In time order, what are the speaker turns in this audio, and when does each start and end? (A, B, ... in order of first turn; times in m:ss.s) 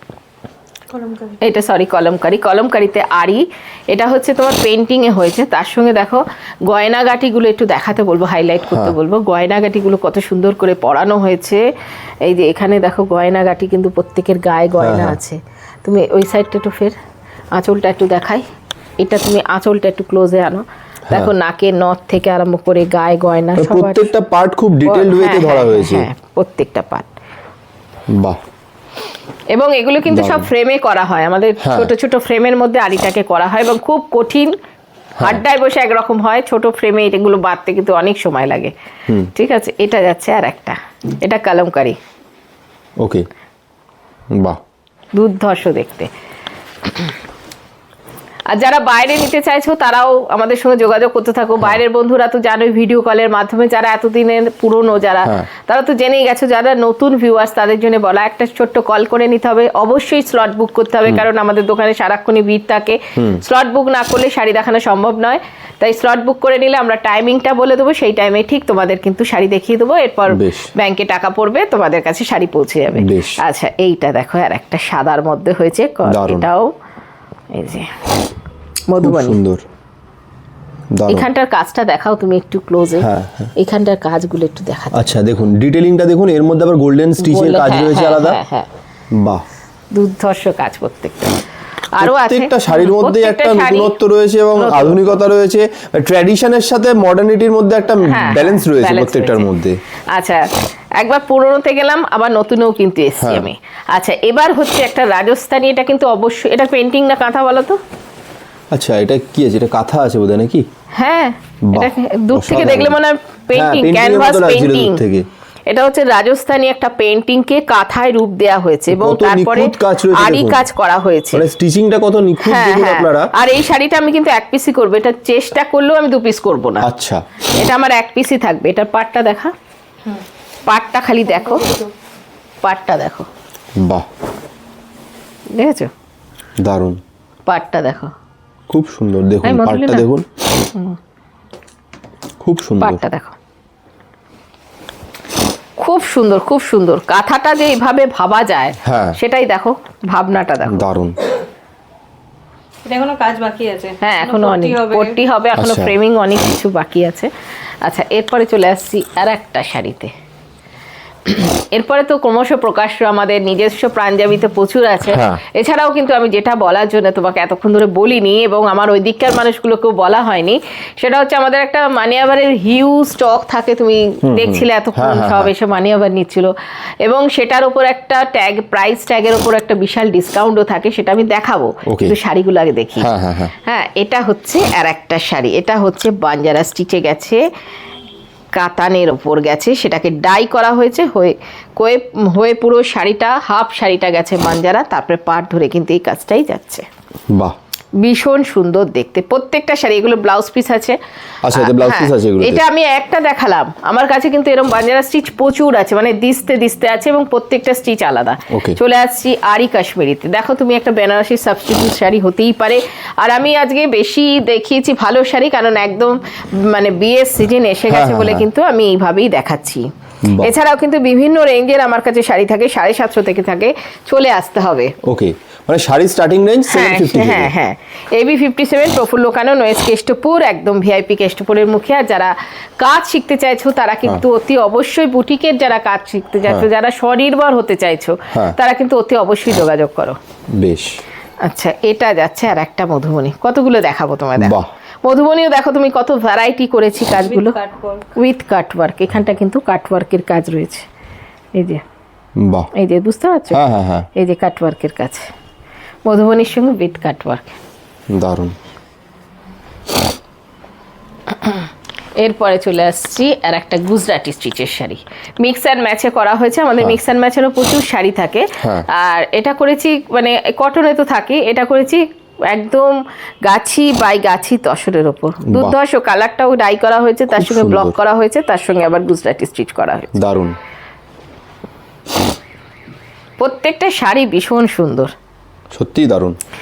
0:00.9-0:01.4 A
0:01.4-0:11.6 B
0:08.7-0:09.0 C
0:12.2-0:16.9 B
0:14.8-0:15.2 C
0:17.5-0:18.4 B
0:19.0-0:24.1 B
0:23.6-0:26.1 C
0:24.8-0:27.1 B
0:28.1-0:28.4 C
0:29.5-0:34.5 B
0:30.1-0:30.5 C
0:31.6-0:31.9 C
0:35.2-0:38.7 B
0:39.3-0:42.0 B
0:43.0-0:43.3 C
0:44.3-0:44.6 C
0:45.1-0:46.1 B
0:46.8-0:47.1 B
0:48.5-1:16.7 B
1:03.2-1:03.4 C
1:10.3-1:10.7 C
1:13.0-1:13.4 C
1:16.0-1:16.5 C
1:17.5-1:18.0 B
1:18.9-1:19.4 B
1:19.0-1:19.6 C
1:20.9-1:21.3 C
1:21.1-1:25.0 B
1:23.0-1:23.5 C
1:24.9-1:28.4 C
1:27.2-1:28.7 B
1:29.1-1:29.4 C
1:29.9-1:31.4 B
1:31.9-1:33.9 B
1:32.0-1:39.8 C
1:34.5-1:35.0 B
1:38.0-1:39.5 B
1:40.1-1:47.8 B
1:43.2-1:43.5 C
1:48.7-1:50.6 C
1:51.0-1:55.0 B
1:51.7-1:53.0 C
1:53.5-1:55.2 C
1:55.7-2:01.4 B
1:58.9-2:00.7 C
2:01.3-2:03.3 C
2:02.4-2:06.9 B
2:06.8-2:07.2 C
2:07.5-2:09.5 B
2:10.7-2:11.7 B
2:11.4-2:11.8 A
2:12.6-2:13.3 B
2:13.8-2:14.0 C
2:15.5-2:15.9 B
2:16.6-2:17.0 C
2:17.5-2:18.1 B
2:18.7-2:20.2 C
2:19.4-2:20.1 B
2:22.4-2:23.0 C
2:22.8-2:23.4 B
2:25.8-2:30.8 B
2:28.8-2:29.2 C
2:30.7-2:31.2 C
2:32.8-2:35.2 A
2:34.0-2:37.3 B
2:35.6-2:35.9 C
2:37.8-2:40.1 B
2:41.2-3:03.1 B
2:45.1-2:45.4 C
2:54.2-2:55.5 C
3:01.9-3:02.2 C
3:03.0-3:03.5 C
3:03.6-3:07.4 B
3:08.5-3:16.9 B
3:18.0-3:21.0 B
3:21.4-3:22.6 C
3:21.5-3:44.9 B
3:28.5-3:28.8 C
3:37.9-3:38.5 C
3:40.2-3:40.5 C
3:45.0-3:47.5 C
3:46.7-4:00.2 B
4:00.5-4:01.0 C
4:01.4-4:07.6 B
4:04.4-4:04.7 C
4:07.2-4:08.0 A
4:08.1-4:10.8 B
4:11.5-4:11.8 B
4:12.4-4:12.7 C
4:12.7-4:13.6 B
4:13.5-4:14.1 C
4:14.1-4:15.3 B
4:16.0-4:17.6 B
4:18.1-4:18.5 C
4:21.3-4:21.7 B
4:22.2-4:40.1 B
4:28.6-4:28.9 C
4:35.4-4:35.8 C
4:37.3-4:38.0 C
4:40.1-4:40.6 C
4:43.4-4:45.1 B
4:45.7-4:46.4 C